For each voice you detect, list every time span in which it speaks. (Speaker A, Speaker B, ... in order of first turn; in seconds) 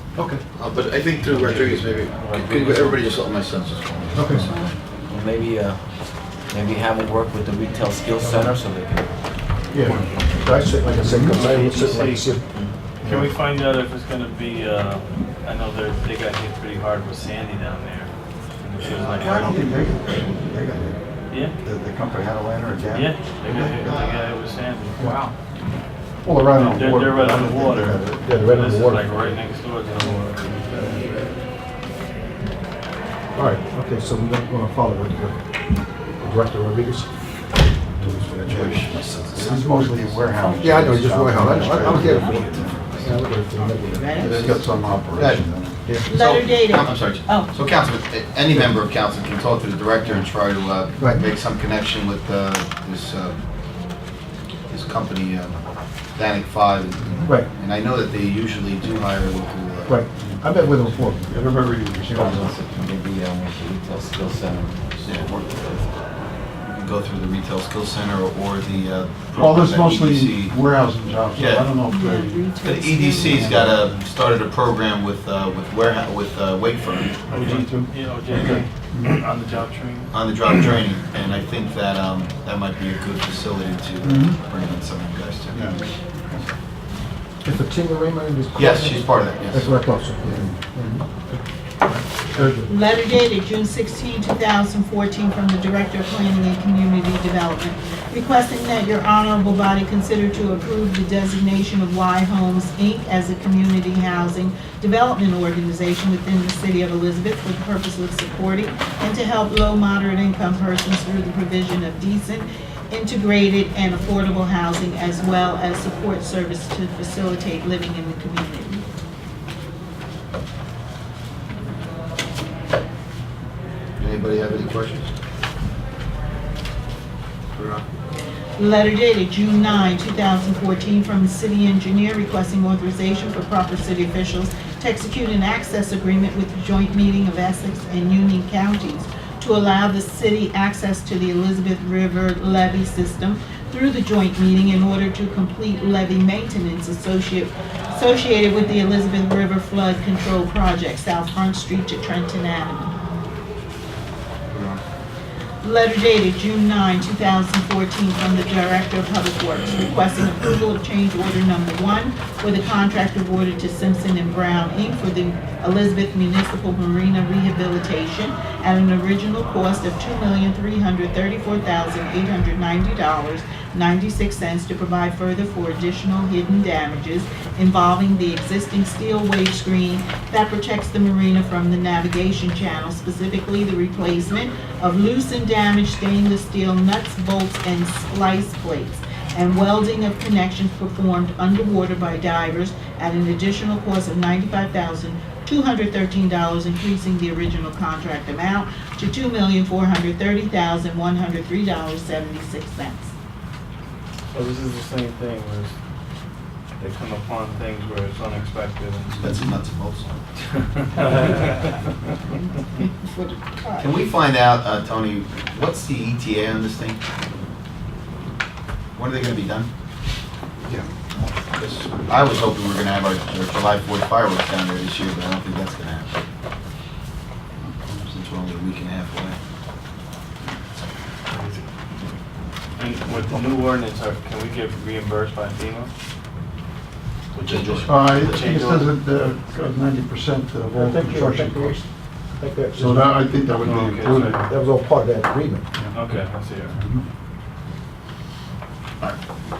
Speaker A: 0.5-4.8, 38.5-39.4, 42.0-43.1, 45.1-45.5, 46.1-53.4, 54.7-55.6, 56.1-60.0, 65.0-65.9, 66.7-70.6, 71.3-71.7, 72.6-77.2, 80.1-86.0, 88.5-89.8, 124.0-125.1, 127.5-127.8, 154.5-154.8, 209.2-210.2, 213.8-217.0, 218.9-219.7, 221.6-226.2, 228.0-229.3, 237.4-238.5
Speaker B: 1.2-3.0, 11.2-12.3, 13.0-18.1, 18.6-19.6, 22.9-25.1, 26.5-30.8, 77.3-80.5, 204.3-205.7, 206.8-209.4, 210.9-211.7, 231.3-231.6, 232.8-235.9, 237.3-239.0, 243.6-244.5, 245.9-246.8
Speaker C: 4.1-4.5, 8.2-8.6, 9.7-12.4, 25.0-25.2, 28.0-29.4, 33.3-35.4, 36.2-37.1, 37.9-44.4, 45.8-46.1, 51.0-51.2, 59.9-61.4, 87.4-91.4, 92.3-92.7, 240.7-241.8, 242.4-243.1, 244.4-245.7
Speaker D: 5.1-5.8, 6.5-9.1, 62.0-65.8
Speaker E: 9.8-10.1, 11.0-11.4, 13.0-13.3, 19.0-21.0, 21.6-24.1, 25.0-25.3, 26.2-28.2, 30.0-31.1, 38.5-43.0, 44.1-45.8, 60.1-62.5, 69.3-72.5, 73.1-74.0, 77.3-77.9, 78.9-79.3, 84.0-84.4, 85.5-86.4, 90.2-90.6, 91.9-92.5, 220.6-220.9, 227.6-228.1, 237.8-241.8, 242.8-244.5, 246.7-247.1
Speaker F: 43.5-44.6, 46.0-47.5, 71.8-73.5, 92.6-118.8, 128.6-153.0, 155.6-203.1, 213.1-213.9